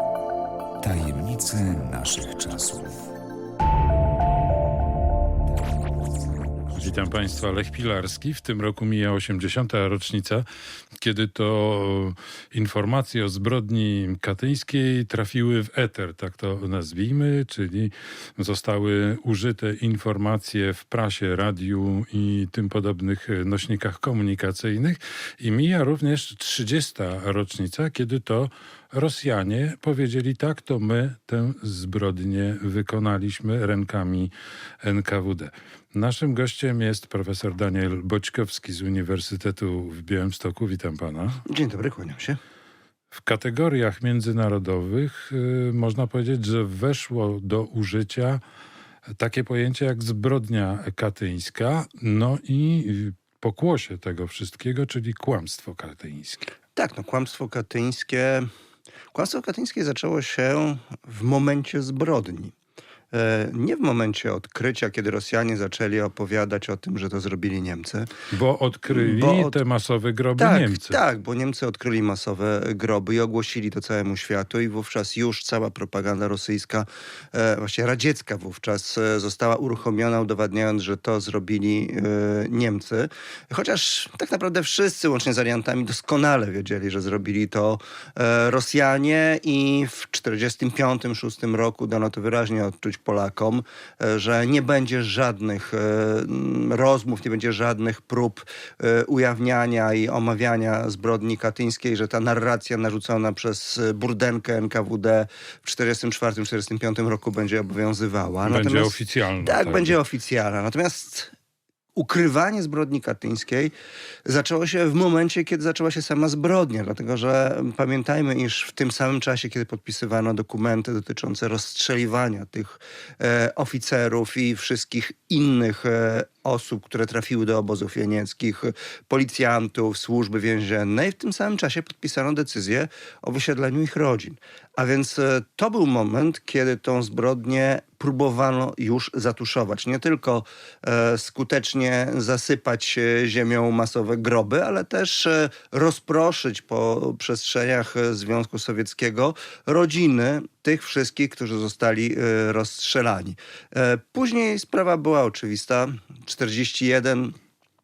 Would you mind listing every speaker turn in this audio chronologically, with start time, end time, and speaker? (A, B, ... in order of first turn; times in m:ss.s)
0:00.8-0:03.1 A
0:05.7-0:06.9 A
0:06.8-0:10.4 B
0:11.0-0:34.3 B
0:34.8-0:41.4 B
0:41.5-0:42.4 C
0:43.1-0:48.4 B
0:49.2-0:56.5 B
0:56.8-0:58.5 C
0:59.1-1:02.5 C
1:03.1-1:08.1 C
1:08.3-1:11.0 B
1:08.9-1:09.6 C
1:10.4-1:51.3 C
1:48.5-1:50.0 B
1:52.0-1:53.7 C
1:54.3-2:37.4 C